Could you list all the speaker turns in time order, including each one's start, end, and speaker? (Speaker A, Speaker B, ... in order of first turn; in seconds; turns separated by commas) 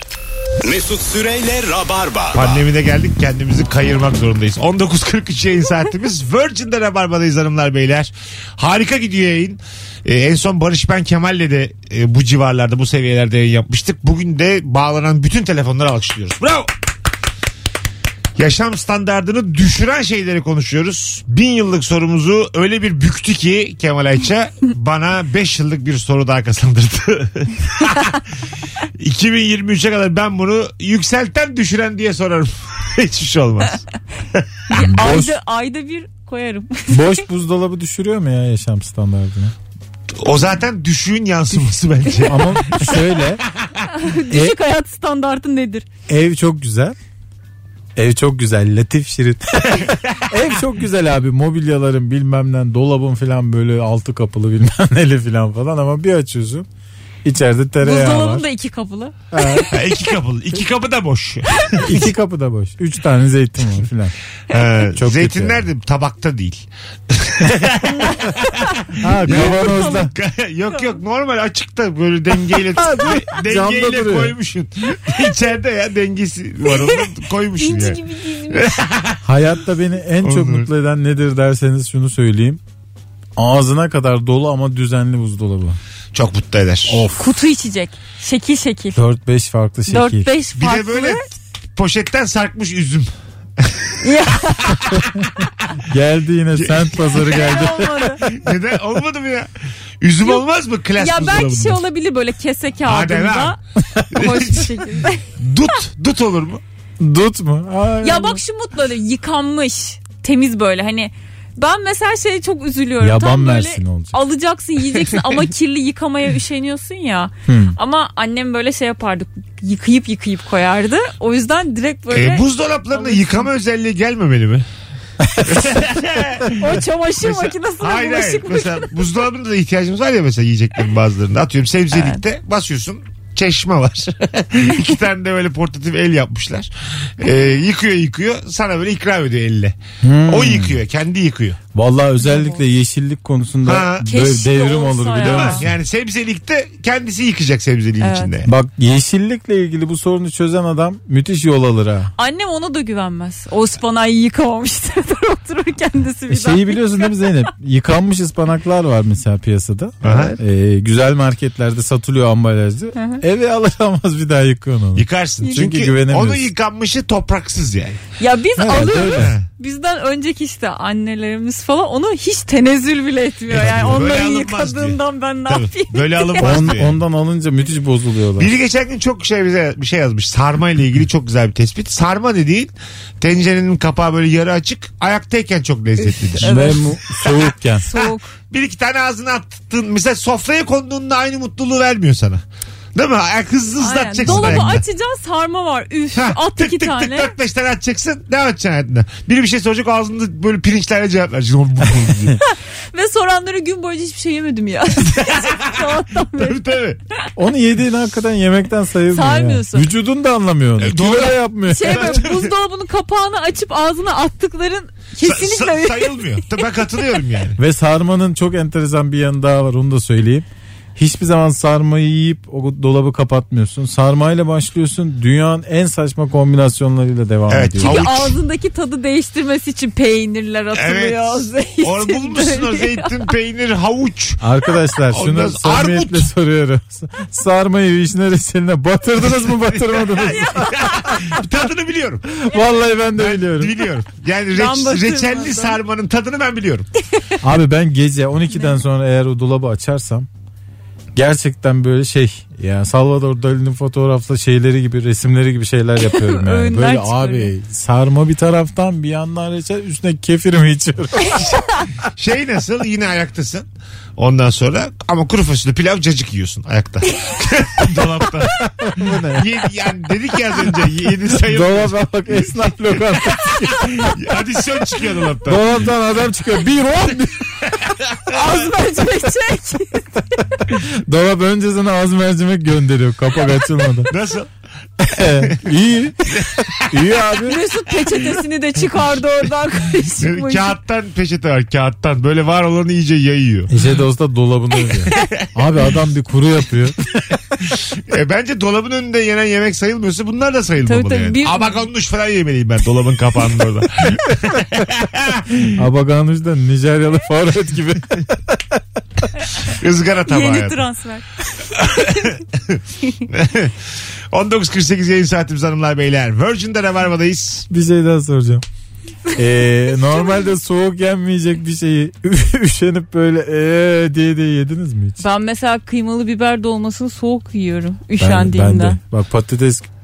Speaker A: 0.6-2.6, Speaker B: 2.3-16.7, Speaker B: 18.4-28.2, Speaker B: 28.9-34.5, Speaker C: 34.7-37.2, Speaker D: 34.7-35.3, Speaker D: 36.9-39.5, Speaker B: 40.1-43.8, Speaker D: 42.2-43.4, Speaker C: 43.9-45.9, Speaker D: 44.3-44.5, Speaker D: 46.1-47.0, Speaker D: 48.0-56.6, Speaker B: 49.8-50.4, Speaker D: 57.2-58.4, Speaker C: 57.8-59.8, Speaker D: 59.3-59.7, Speaker B: 59.7-61.9, Speaker D: 61.8-64.1, Speaker B: 64.5-79.2, Speaker D: 65.0-65.6, Speaker D: 69.0-70.1, Speaker C: 69.3-70.0, Speaker C: 70.7-71.0, Speaker D: 72.8-74.3, Speaker C: 76.7-78.7, Speaker D: 79.2-82.6, Speaker B: 80.2-80.7, Speaker D: 83.4-85.8, Speaker B: 86.1-87.1, Speaker D: 86.9-87.2, Speaker C: 87.2-89.0, Speaker D: 88.9-90.3, Speaker C: 89.9-91.3, Speaker B: 90.5-95.7, Speaker C: 94.0-94.9, Speaker D: 94.9-95.3, Speaker D: 95.9-98.0, Speaker B: 96.5-97.0, Speaker C: 97.1-98.4, Speaker B: 98.2-101.8, Speaker C: 101.0-103.6, Speaker B: 102.8-103.6, Speaker C: 104.1-105.4, Speaker B: 104.1-104.8, Speaker B: 105.4-106.6, Speaker D: 107.0-108.4, Speaker C: 108.0-123.4, Speaker D: 113.0-114.1, Speaker D: 117.5-117.8, Speaker B: 122.1-124.7, Speaker D: 125.2-125.6, Speaker B: 125.4-141.6, Speaker C: 126.5-128.9, Speaker C: 131.9-132.2, Speaker D: 140.0-140.8, Speaker D: 141.7-145.6, Speaker C: 142.2-142.6, Speaker B: 143.6-144.1, Speaker C: 144.1-145.7, Speaker B: 145.2-148.5, Speaker C: 148.0-148.3, Speaker D: 148.4-152.1, Speaker C: 152.2-157.3, Speaker D: 156.3-166.5, Speaker B: 160.0-160.4, Speaker C: 160.0-160.4, Speaker C: 162.9-163.2, Speaker B: 164.9-168.0, Speaker C: 165.4-165.7, Speaker C: 168.2-176.7, Speaker B: 168.6-169.4, Speaker D: 168.7-169.3, Speaker D: 173.5-174.0, Speaker B: 173.5-177.0, Speaker D: 176.4-178.5, Speaker B: 178.4-186.5, Speaker C: 186.0-188.3, Speaker D: 186.4-187.8, Speaker B: 187.9-192.4, Speaker B: 192.9-194.8, Speaker C: 193.8-197.3, Speaker D: 194.2-194.8, Speaker B: 196.1-202.4, Speaker C: 202.4-206.6, Speaker B: 205.1-207.0, Speaker D: 207.3-212.2, Speaker C: 209.1-209.9, Speaker B: 210.8-212.5, Speaker C: 211.7-216.5, Speaker B: 215.2-217.6, Speaker D: 217.6-228.0, Speaker B: 227.5-228.4, Speaker C: 227.8-233.3, Speaker B: 230.7-234.4, Speaker D: 234.4-240.8, Speaker B: 235.1-236.3, Speaker B: 239.2-242.4, Speaker C: 240.2-241.4, Speaker D: 242.4-243.8, Speaker B: 243.2-246.9, Speaker C: 244.5-245.8, Speaker D: 247.4-250.3, Speaker C: 248.5-248.8, Speaker D: 251.1-261.4, Speaker C: 256.0-257.5, Speaker B: 262.1-272.9, Speaker D: 268.7-269.4, Speaker D: 271.5-274.1, Speaker B: 273.8-275.8, Speaker D: 275.4-277.7, Speaker B: 277.9-278.5, Speaker C: 278.3-280.4, Speaker D: 280.9-284.1, Speaker B: 284.1-284.5, Speaker D: 285.0-287.6, Speaker B: 286.4-286.7, Speaker C: 287.4-290.7, Speaker B: 290.2-293.7, Speaker D: 293.7-297.0, Speaker B: 295.1-295.4, Speaker B: 297.8-305.7, Speaker C: 300.8-301.8, Speaker D: 305.8-308.8, Speaker B: 309.6-310.8, Speaker C: 310.3-311.2, Speaker B: 311.7-313.8, Speaker B: 314.3-317.7, Speaker D: 317.7-318.6, Speaker D: 319.3-325.2, Speaker C: 325.2-329.0, Speaker D: 328.2-329.9